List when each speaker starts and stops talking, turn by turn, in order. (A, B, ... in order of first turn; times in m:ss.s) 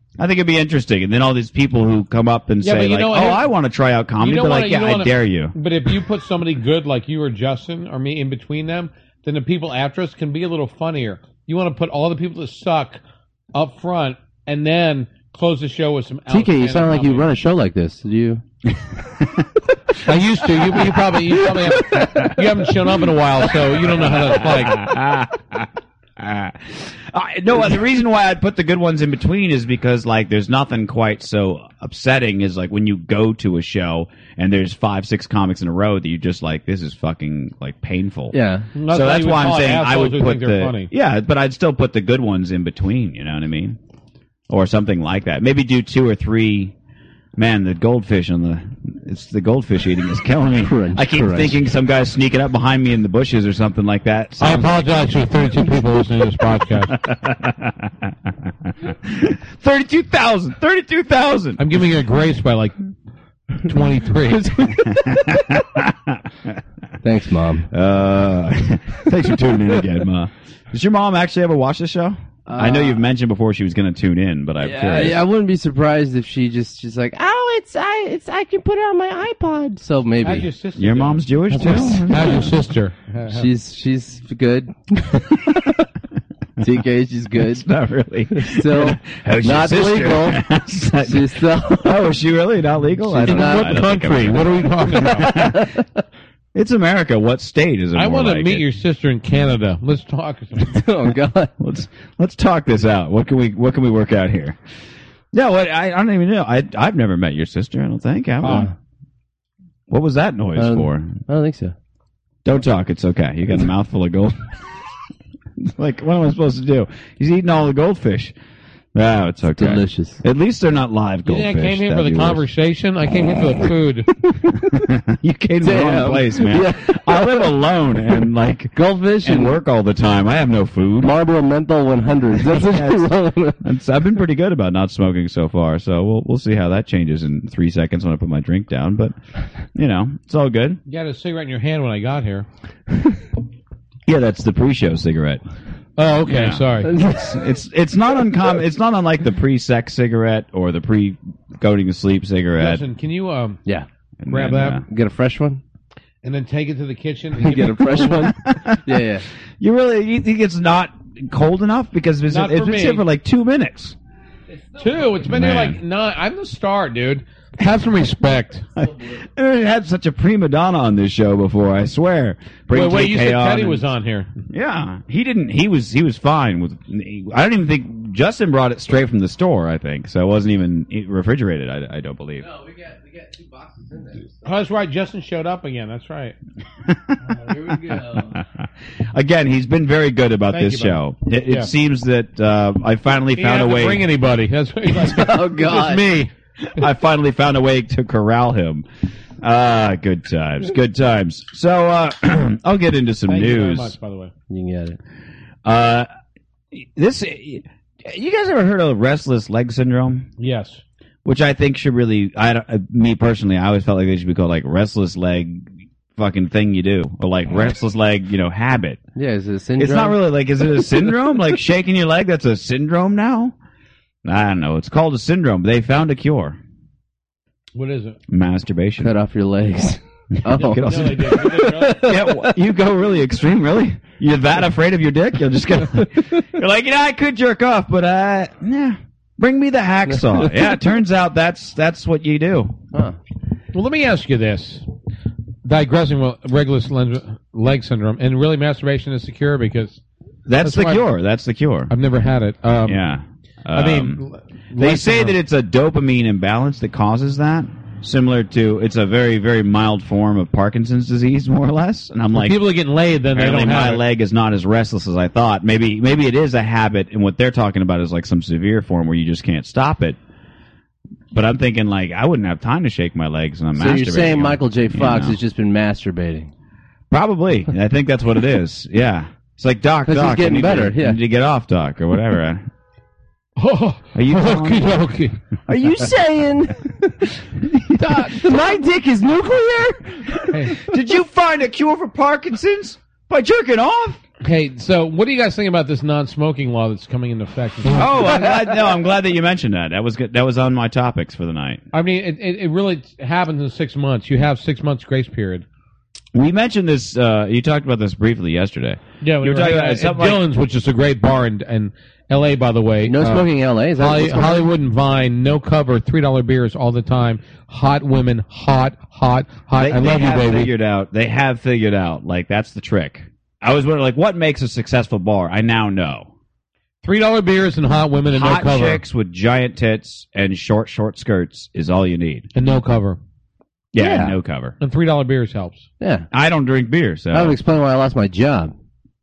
0:00.2-0:05.6 A
0:02.6-0:03.5 B
0:04.2-0:13.0 B
0:13.5-0:17.3 B
0:16.3-0:18.4 C
0:20.0-0:24.9 B
0:21.9-0:22.4 A
0:24.0-0:38.4 A
0:38.3-0:38.7 C
0:38.8-0:40.9 B
0:38.9-0:43.8 A
0:44.5-0:46.7 A
0:47.4-0:54.7 A
0:50.6-0:51.6 C
0:54.4-0:56.9 B
0:57.0-0:57.9 A
0:58.7-1:01.6 A
1:01.6-1:02.8 B
1:03.6-1:04.8 B
1:04.4-1:05.2 C
1:04.9-1:06.2 A
1:07.0-1:07.7 C
1:07.7-1:15.2 A
1:12.5-1:13.1 C
1:14.6-1:20.5 C
1:20.2-1:23.5 B
1:20.8-1:22.5 A
1:21.5-1:22.4 C
1:23.3-1:25.8 C
1:26.6-1:27.7 C
1:27.4-1:35.7 A
1:28.3-1:30.4 C
1:31.0-1:32.1 C
1:33.0-1:36.0 C
1:33.3-1:35.4 B
1:36.5-1:38.6 A
1:38.0-1:40.8 B
1:40.7-1:41.5 C
1:41.6-1:44.6 A
1:45.3-1:48.7 A
1:48.4-1:48.7 C
1:49.9-1:51.2 A
1:50.6-1:51.8 C
1:52.4-1:54.5 A
1:55.6-1:58.3 A
1:58.9-2:02.4 A
1:59.6-2:00.2 C
2:01.2-2:04.1 B
2:04.5-2:11.1 A
2:05.6-2:07.5 C
2:08.8-2:09.6 C
2:11.0-2:13.6 C
2:12.4-2:19.2 A
2:19.8-2:20.8 A
2:20.9-2:22.5 B
2:24.1-2:25.4 A
2:26.0-2:26.9 B
2:26.3-2:32.8 A
2:32.6-2:33.6 B
2:34.2-2:34.8 A
2:34.3-2:34.8 B
2:34.9-2:35.6 C
2:36.2-2:38.3 B
2:37.4-2:39.3 C
2:38.4-2:38.8 A
2:39.6-2:44.0 A
2:42.3-2:43.0 B
2:44.8-2:48.7 B
2:45.3-2:45.8 A
2:48.8-2:53.8 A
2:52.7-2:54.3 B
2:54.5-3:02.5 A
3:02.4-3:04.5 C
3:04.4-3:06.4 B
3:06.9-3:07.5 A
3:07.3-3:08.4 C
3:08.2-3:14.0 A
3:10.5-3:11.7 B
3:13.4-3:16.3 B
3:14.9-3:16.1 C
3:16.7-3:18.9 A
3:19.4-3:24.0 A
3:23.3-3:24.3 B
3:24.5-3:25.0 C
3:25.6-3:26.1 A
3:26.7-3:30.3 A
3:30.4-3:30.8 B
3:31.2-3:39.0 A
3:39.2-3:40.2 C
3:39.8-3:43.6 A
3:44.2-3:46.6 A
3:47.8-3:48.2 B
3:48.3-3:49.1 A
3:49.0-3:52.6 C
3:50.4-4:02.8 A
3:50.6-3:52.0 B
4:00.1-4:00.8 C
4:02.9-4:03.2 C
4:03.7-4:04.8 B
4:05.6-4:10.0 B
4:10.5-4:11.9 A
4:10.6-4:11.1 B
4:11.9-4:13.0 B
4:12.9-4:14.2 A
4:13.7-4:15.4 B
4:14.8-4:22.6 A
4:22.3-4:24.0 B
4:23.3-4:30.2 A
4:31.3-4:35.4 A
4:33.8-4:36.5 C
4:37.1-4:42.6 A
4:40.0-4:41.2 C
4:43.6-4:45.4 B
4:44.2-4:44.9 A
4:45.7-4:47.3 C
4:48.0-4:50.8 C
4:50.5-4:50.8 B
4:50.8-4:54.2 A
4:54.4-4:58.5 B
4:57.9-5:01.8 A
4:58.3-4:58.5 C
5:01.9-5:05.6 B
5:06.4-5:10.4 A
5:09.2-5:20.7 B
5:13.0-5:14.7 C
5:19.8-5:26.3 A
5:27.0-5:29.0 B
5:28.3-5:32.5 A
5:32.6-5:33.2 B
5:33.9-5:34.8 A
5:34.0-5:34.4 C
5:34.8-5:35.9 B
5:36.0-5:36.3 C
5:36.3-5:37.6 A
5:37.3-5:38.7 C